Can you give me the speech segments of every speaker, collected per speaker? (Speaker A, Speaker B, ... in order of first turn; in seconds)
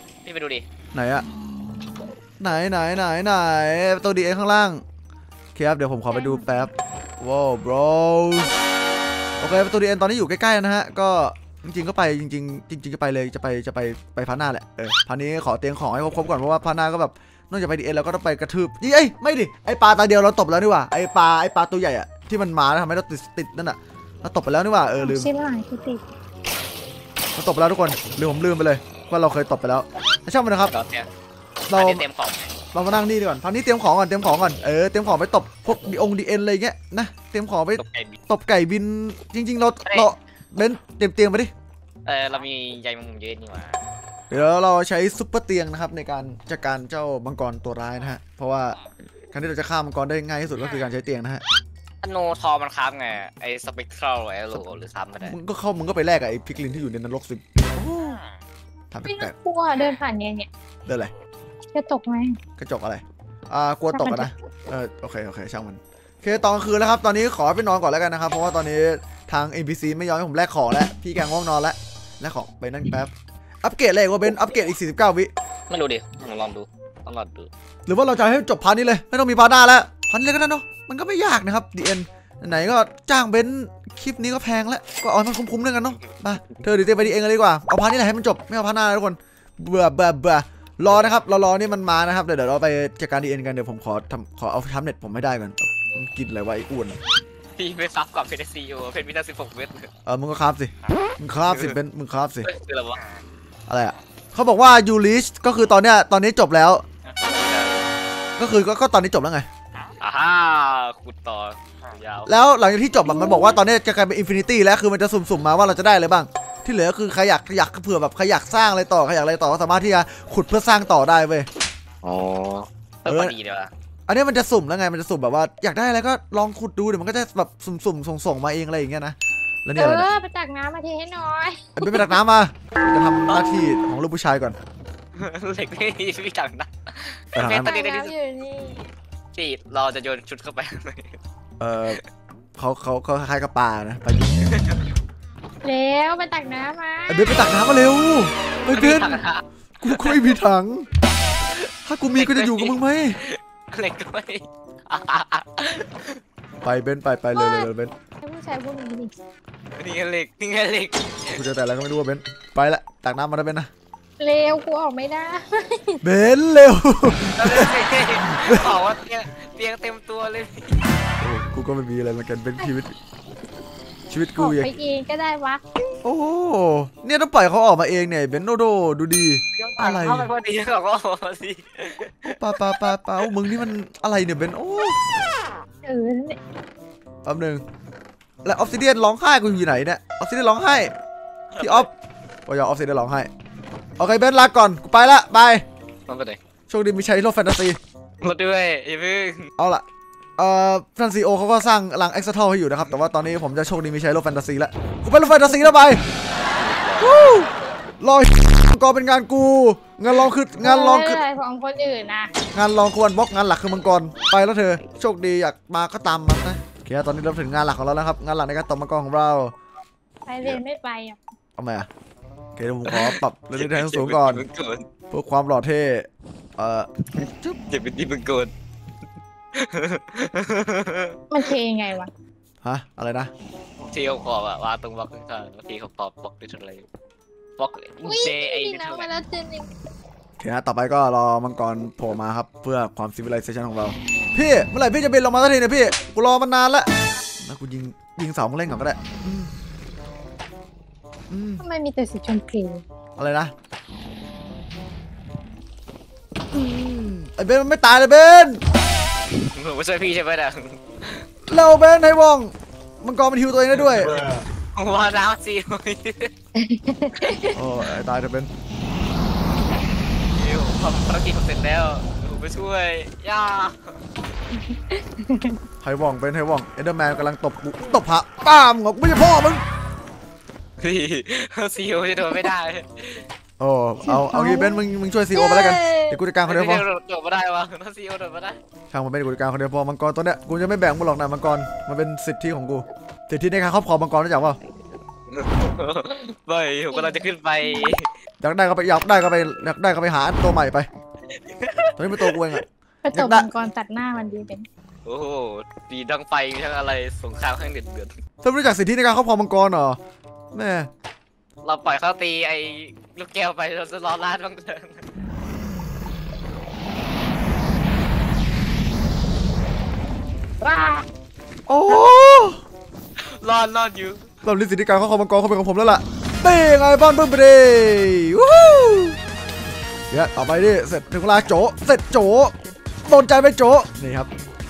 Speaker A: 0.2-0.7, 30.7-31.1, 31.7-32.5, 37.8-38.2, 42.0-43.8, 52.0-55.4, 75.7-77.5, 97.6-99.9, 101.5-101.8, 102.4-103.0, 107.0-107.9, 110.0-112.3, 122.0-123.7, 135.2-138.1, 139.3-141.2, 148.7-150.2, 152.1-156.2, 159.8-161.1, 167.4-170.7, 179.5-183.3, 191.5-191.9, 196.1-196.4, 198.2-199.5, 206.4-207.4, 222.9-224.8, 227.1-228.5, 229.5-231.2, 233.8-236.8, 237.6-239.1, 259.5-261.2, 264.1-266.3, 270.3-274.0, 280.8-283.2, 286.5-288.6, 295.3-298.1, 301.4-302.4, 305.0-308.1, 311.6-315.0, 320.6-321.0, 323.2-324.2
Speaker B: 0.9-1.2, 2.4-4.8, 5.5-8.6, 9.4-25.3, 27.4-30.7, 31.7-32.0, 32.7-41.5, 44.3-48.8, 49.3-51.4, 55.2-58.2, 58.9-59.3, 60.9-61.1, 62.6-73.1, 73.6-75.3, 77.8-97.0, 100.0-102.5, 103.7-106.8, 108.4-109.5, 112.2-121.5, 123.1-123.3, 124.1-130.1, 131.8-134.6, 137.3-137.7, 141.6-142.0, 142.6-144.4, 147.1-149.2, 149.8-150.8, 151.8-153.2, 156.6-157.9, 161.3-163.7, 166.0-168.7, 171.2-172.9, 174.1-174.7, 176.0-180.3, 182.3-185.0, 187.2-187.6, 188.4-190.9, 191.6-191.9, 192.4-193.3, 194.0-195.6, 196.7-197.8, 199.6-199.8, 200.4-206.0, 207.0-207.5, 208.0-211.2, 212.5-219.5, 221.6-221.9, 222.6-224.4, 225.1-226.9, 232.6-233.3, 240.4-246.9, 247.4-249.5, 251.3-251.6, 253.2-253.5, 256.5-258.6, 261.5-264.2, 267.5-268.5, 275.8-279.6, 283.6-286.9, 288.9-294.6, 298.4-300.9, 302.0-303.5, 308.4-310.0, 310.5-310.9, 321.7-322.6, 324.4-329.2, 330.1-332.5, 333.1-334.3
Speaker C: 6.1-6.7, 25.0-26.0, 59.1-60.5, 61.7-62.4, 63.9-64.3, 129.7-132.1, 137.6-138.9, 145.6-147.3, 157.3-157.7, 158.2-159.1, 164.2-166.0, 174.3-175.6, 185.8-186.4, 210.6-212.3, 220.3-221.2, 231.3-232.1, 238.1-239.7, 251.6-252.8, 266.6-267.5, 274.7-275.6, 284.0-284.8, 285.3-286.2, 296.9-297.2, 303.0-304.6